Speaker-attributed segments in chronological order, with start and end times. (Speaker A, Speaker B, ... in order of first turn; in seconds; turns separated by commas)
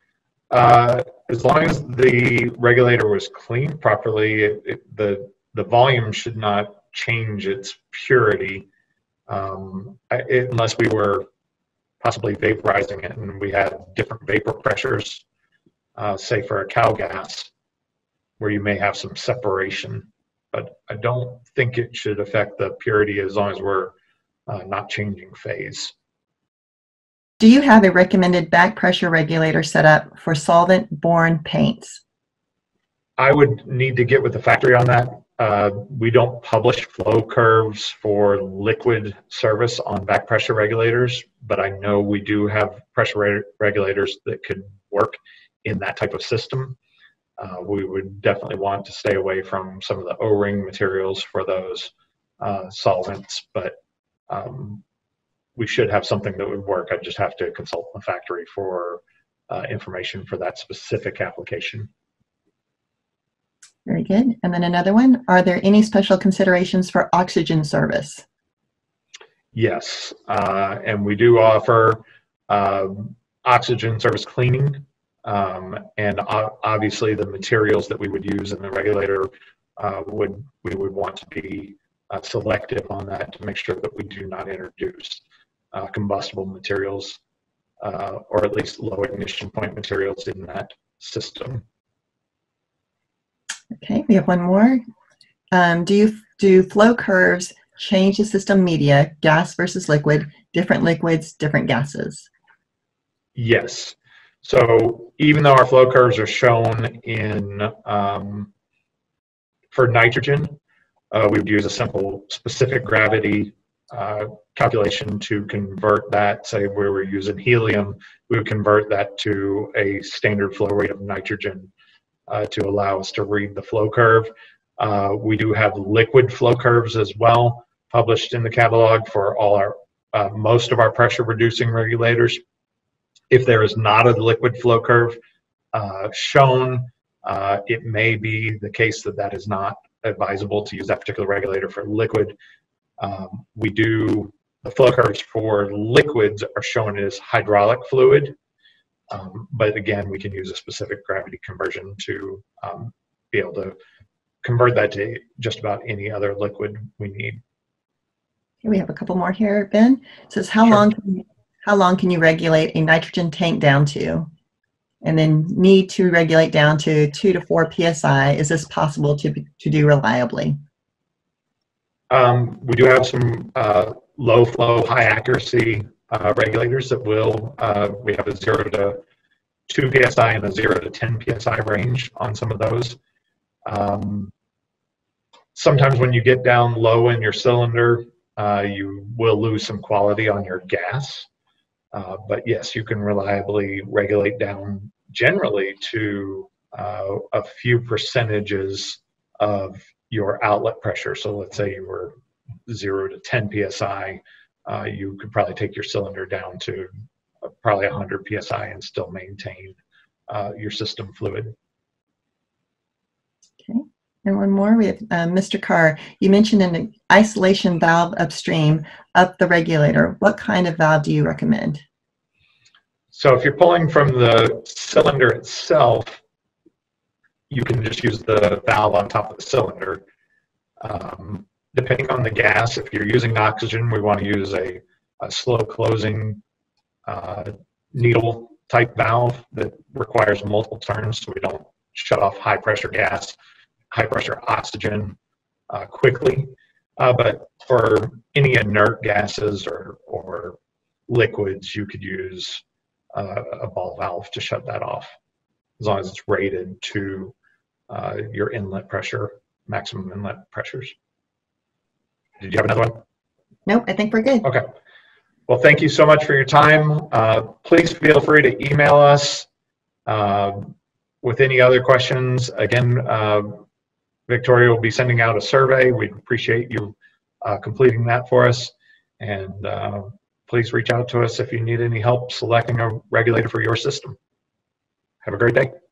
Speaker A: 0.5-8.7, Speaker A: 9.3-11.3, Speaker A: 12.0-15.2, Speaker A: 16.0-17.5, Speaker A: 18.4-23.9, Speaker A: 24.5-25.9, Speaker B: 27.4-32.0, Speaker A: 33.2-46.8, Speaker A: 47.4-53.7, Speaker A: 54.3-54.8, Speaker A: 55.6-61.9, Speaker B: 63.9-68.2, Speaker A: 69.5-87.2, Speaker A: 87.8-91.6, Speaker B: 93.7-94.8, Speaker B: 95.5-102.3, Speaker A: 103.3-108.5, Speaker A: 109.7-110.5, Speaker A: 111.1-121.7, Speaker A: 122.3-132.4, Speaker A: 133.3-135.2, Speaker A: 135.7-142.3, Speaker A: 143.0-148.3, Speaker A: 149.1-153.7, Speaker A: 154.4-157.4, Speaker B: 158.6-164.3, Speaker B: 165.0-170.6, Speaker A: 172.1-179.0, Speaker A: 179.7-183.0, Speaker A: 183.7-184.3, Speaker A: 185.5-191.3, Speaker A: 191.9-202.1, Speaker A: 202.7-206.9, Speaker A: 207.4-209.8, Speaker A: 210.3-211.5, Speaker B: 213.6-221.8, Speaker A: 223.1-226.2, Speaker A: 227.5-230.0, Speaker A: 230.8-236.4, Speaker A: 237.1-243.4, Speaker A: 243.9-245.2, Speaker A: 245.7-252.6, Speaker A: 253.1-255.1, Speaker A: 255.8-257.3, Speaker A: 257.9-260.9, Speaker A: 262.4-263.0, Speaker B: 263.6-264.4, Speaker A: 264.4-264.7, Speaker A: 265.5-269.5, Speaker A: 270.1-273.6, Speaker A: 274.3-284.2, Speaker A: 285.2-285.7